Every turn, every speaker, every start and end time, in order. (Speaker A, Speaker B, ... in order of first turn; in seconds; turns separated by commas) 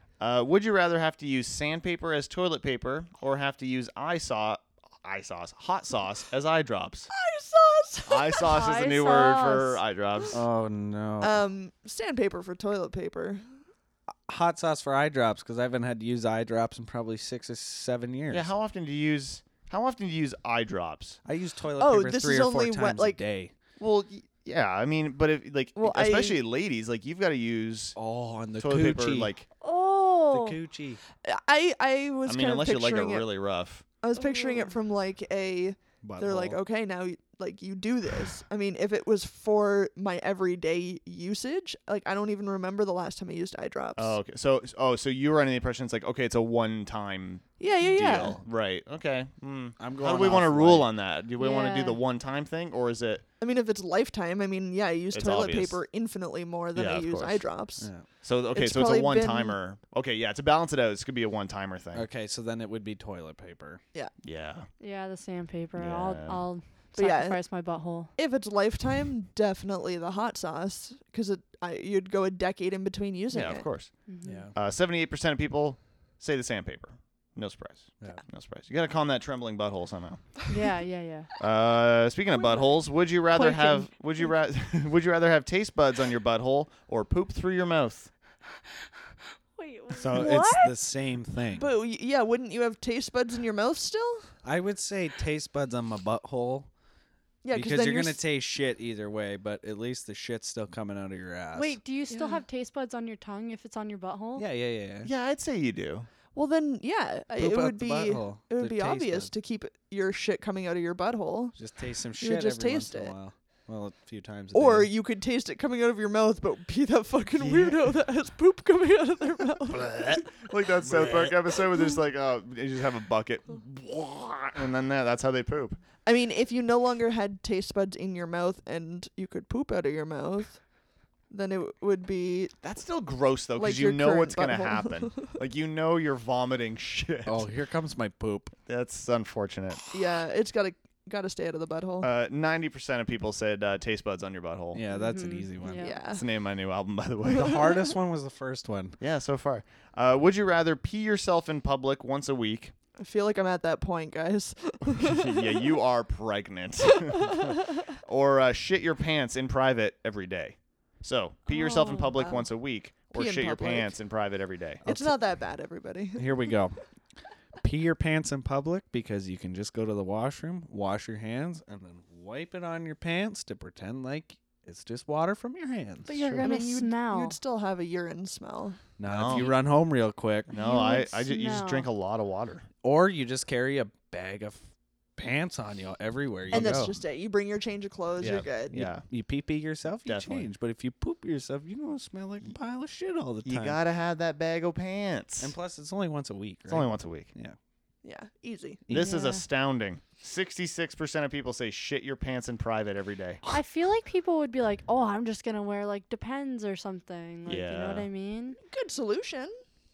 Speaker A: 0.2-7.1, Speaker B: 7.2-8.5, Speaker A: 8.1-10.4, Speaker C: 8.5-9.8, Speaker D: 10.3-11.4, Speaker B: 11.2-13.4, Speaker D: 14.3-18.5, Speaker A: 18.3-21.2, Speaker D: 21.2-23.5, Speaker B: 21.8-23.2, Speaker A: 23.8-28.0, Speaker B: 25.8-26.4, Speaker D: 27.9-29.4, Speaker A: 28.6-29.4, Speaker C: 29.6-30.6, Speaker D: 30.3-31.0, Speaker B: 31.2-33.3, Speaker A: 32.2-33.8, Speaker B: 34.0-44.2, Speaker C: 34.2-34.7, Speaker D: 36.0-36.6, Speaker A: 44.0-53.2, Speaker B: 47.6-48.4, Speaker D: 47.9-48.4, Speaker D: 49.8-50.9, Speaker C: 51.4-52.0, Speaker B: 53.4-57.9, Speaker A: 55.1-55.8, Speaker A: 56.7-57.5, Speaker D: 57.8-58.1, Speaker A: 58.2-62.1, Speaker B: 58.5-59.6, Speaker D: 61.9-63.8, Speaker A: 64.2-64.7, Speaker C: 64.8-68.1, Speaker A: 65.8-66.4, Speaker B: 66.9-67.4, Speaker B: 68.2-73.7, Speaker A: 73.3-74.0, Speaker C: 74.0-74.5, Speaker D: 74.2-74.5, Speaker A: 74.5-80.3, Speaker C: 80.5-81.3, Speaker A: 81.4-88.1, Speaker C: 82.3-83.9, Speaker C: 89.5-90.8, Speaker D: 89.9-91.7, Speaker B: 91.6-94.3, Speaker D: 94.4-96.7, Speaker B: 97.4-98.2, Speaker D: 97.5-101.8, Speaker C: 101.5-104.5, Speaker B: 102.1-102.4, Speaker D: 104.3-105.1, Speaker A: 105.0-106.1, Speaker B: 106.3-111.6, Speaker D: 107.3-109.3, Speaker D: 111.5-114.9, Speaker B: 112.2-113.2, Speaker B: 114.5-120.0, Speaker A: 117.4-117.9, Speaker A: 119.8-125.8, Speaker D: 120.9-121.3, Speaker B: 126.0-130.6, Speaker B: 131.3-132.5, Speaker A: 132.6-137.5, Speaker B: 133.6-135.3, Speaker D: 137.2-138.5, Speaker A: 138.7-139.8, Speaker B: 139.9-142.1, Speaker A: 142.0-144.8, Speaker D: 144.7-146.0, Speaker C: 144.9-146.0, Speaker B: 145.8-146.2, Speaker A: 146.1-147.6, Speaker D: 147.3-149.0, Speaker A: 149.0-152.7, Speaker B: 153.0-155.6, Speaker A: 155.0-164.8, Speaker B: 161.5-162.5, Speaker C: 161.7-162.2, Speaker B: 163.1-164.0, Speaker D: 164.8-165.1, Speaker B: 164.8-166.5, Speaker D: 166.2-166.8, Speaker D: 167.6-176.5, Speaker C: 176.1-177.4, Speaker B: 176.3-178.8, Speaker D: 179.0-180.5, Speaker A: 179.1-179.5, Speaker A: 180.5-182.7, Speaker C: 180.5-181.9, Speaker D: 182.8-187.0, Speaker B: 186.5-188.9, Speaker A: 188.2-189.0, Speaker D: 188.2-193.8, Speaker A: 190.1-190.5, Speaker A: 193.4-195.5, Speaker D: 195.4-197.6, Speaker A: 196.7-197.3, Speaker B: 198.0-198.8, Speaker D: 198.9-199.1, Speaker A: 198.9-203.4, Speaker C: 198.9-199.4, Speaker C: 203.5-208.6, Speaker A: 207.4-208.1, Speaker B: 208.6-209.5